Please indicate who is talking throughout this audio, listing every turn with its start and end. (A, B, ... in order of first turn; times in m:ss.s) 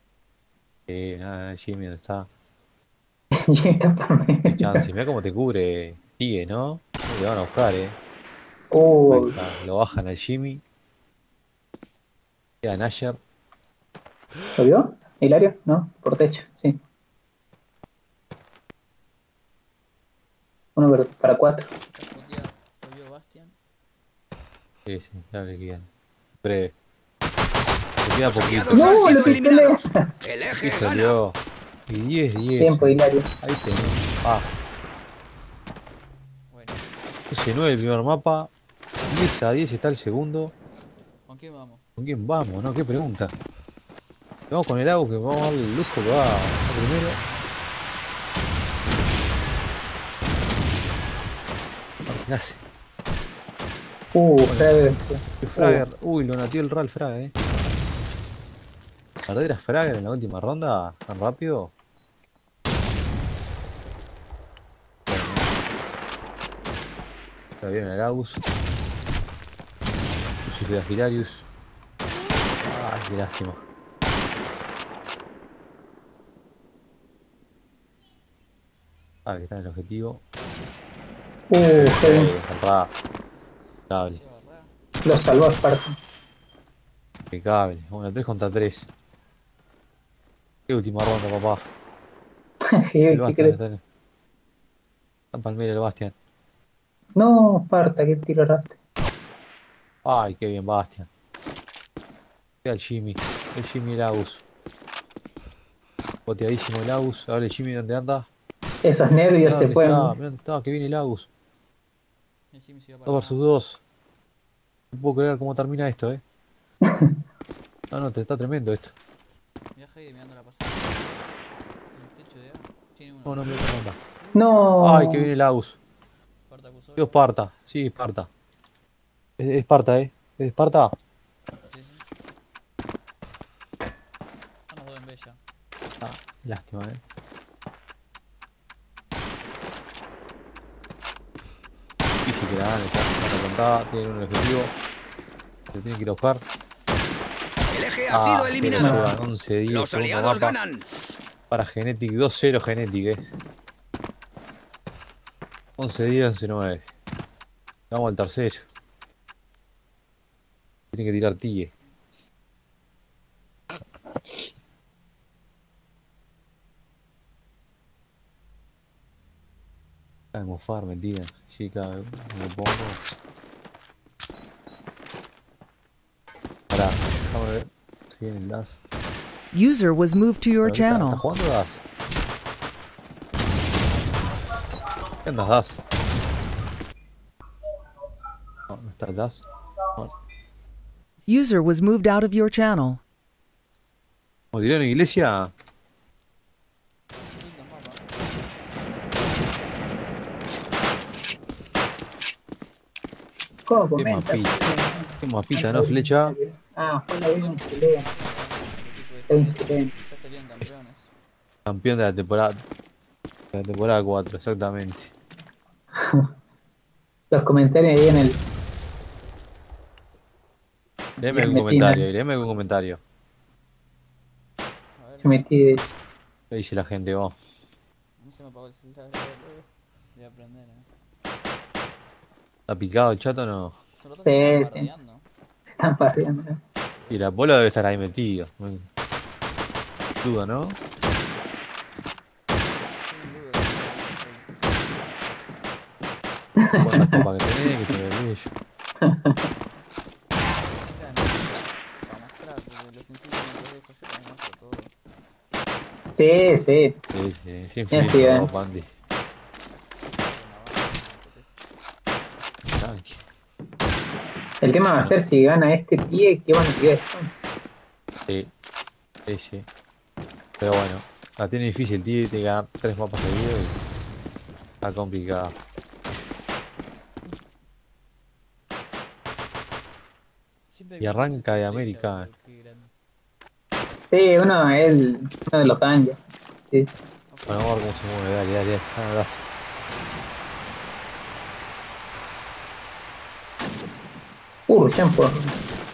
0:00.9-0:02.3 A
0:03.3-0:04.9 B
0:04.4-0:08.0 A
0:08.7-0:09.4 B
0:09.1-0:10.6 A
0:12.6-0:13.2 A
0:14.6-0:16.8 B
0:20.8-0:21.7 B
0:21.8-0:23.6 C
0:24.9-0:25.9 A
0:26.4-0:26.7 A
0:28.0-0:29.4 A
0:28.3-0:31.2 D
0:28.7-0:30.0 B
0:30.5-0:31.4 A
0:31.9-0:34.5 A
0:32.6-0:33.3 B
0:36.5-0:37.0 C
0:37.3-0:38.5 A
0:39.1-0:40.5 A
0:41.3-0:41.8 C
0:42.0-0:43.3 A
0:44.5-0:47.2 A
0:46.9-0:47.6 C
0:52.1-0:52.6 A
0:54.1-0:55.8 B
0:54.5-0:57.3 A
0:59.3-1:01.7 A
1:05.1-1:05.4 A
1:07.6-1:08.4 A
1:10.4-1:11.5 A
1:12.6-1:13.6 A
1:19.3-1:20.2 A
1:21.5-1:22.3 B
1:21.6-1:22.9 A
1:23.9-1:24.7 C
1:23.9-1:24.2 A
1:25.0-1:26.0 B
1:27.3-1:28.9 A
1:30.7-1:31.6 A
1:32.6-1:33.6 B
1:33.1-1:33.8 A
1:35.3-1:36.1 A
1:37.2-1:38.8 B
1:40.0-1:41.1 A
1:42.6-1:44.4 A
1:46.3-1:48.3 A
1:48.8-1:50.1 B
1:49.4-1:51.3 A
1:52.5-1:53.5 C
1:53.1-1:53.8 A
1:54.9-1:56.2 A
1:56.8-1:57.2 B
1:57.9-1:58.9 A
1:59.8-2:01.3 C
2:01.9-2:03.6 C
2:03.3-2:04.0 A
2:04.3-2:05.3 B
2:04.8-2:05.8 A
2:06.5-2:07.3 C
2:07.0-2:08.3 A
2:09.4-2:10.9 A
2:11.6-2:12.1 C
2:14.7-2:15.4 C
2:16.0-2:17.0 A
2:22.2-2:24.7 A
2:25.7-2:26.4 A
2:27.7-2:29.0 D
2:28.1-2:30.6 A
2:28.8-2:29.1 B
2:29.7-2:30.8 D
2:31.5-2:33.2 A
2:35.8-2:36.8 A
2:37.9-2:38.7 A
2:40.9-2:41.7 A
2:50.3-2:53.0 A
2:56.7-2:58.8 A
2:59.5-3:01.2 E
3:00.6-3:01.8 A
3:05.2-3:05.8 A
3:08.7-3:09.4 A
3:11.3-3:13.0 E
3:14.5-3:15.5 A
3:17.4-3:18.1 C
3:23.7-3:28.0 B
3:24.0-3:26.3 A
3:27.2-3:31.1 C
3:29.3-3:29.9 B
3:31.7-3:32.6 A
3:33.5-3:35.1 A
3:36.0-3:36.3 B
3:37.3-3:38.4 B
3:41.2-3:42.0 B
3:41.2-3:43.0 A
3:45.0-3:45.8 C
3:45.2-3:45.8 B
3:46.5-3:47.4 A
3:48.2-3:50.9 C
3:52.7-3:53.7 A
3:54.0-3:55.2 C
3:54.3-3:54.9 B
3:55.8-3:56.6 B
3:56.9-3:57.3 C
3:57.1-3:58.9 A
4:00.2-4:00.8 A
4:03.1-4:04.5 C
4:06.6-4:07.9 B
4:06.8-4:08.5 A
4:09.0-4:09.4 B
4:10.6-4:14.9 C
4:16.2-4:17.0 B
4:17.1-4:18.9 A
4:17.9-4:18.5 B
4:20.0-4:21.6 C
4:22.7-4:23.2 A
4:24.6-4:27.3 B
4:29.3-4:29.6 A
4:30.6-4:33.7 A
4:34.8-4:35.6 A
4:40.7-4:42.9 C
4:41.0-4:42.3 A
4:44.1-4:46.2 B
4:47.3-4:48.2 C
4:47.5-4:49.4 A
4:49.8-4:51.2 C
4:54.7-4:55.5 B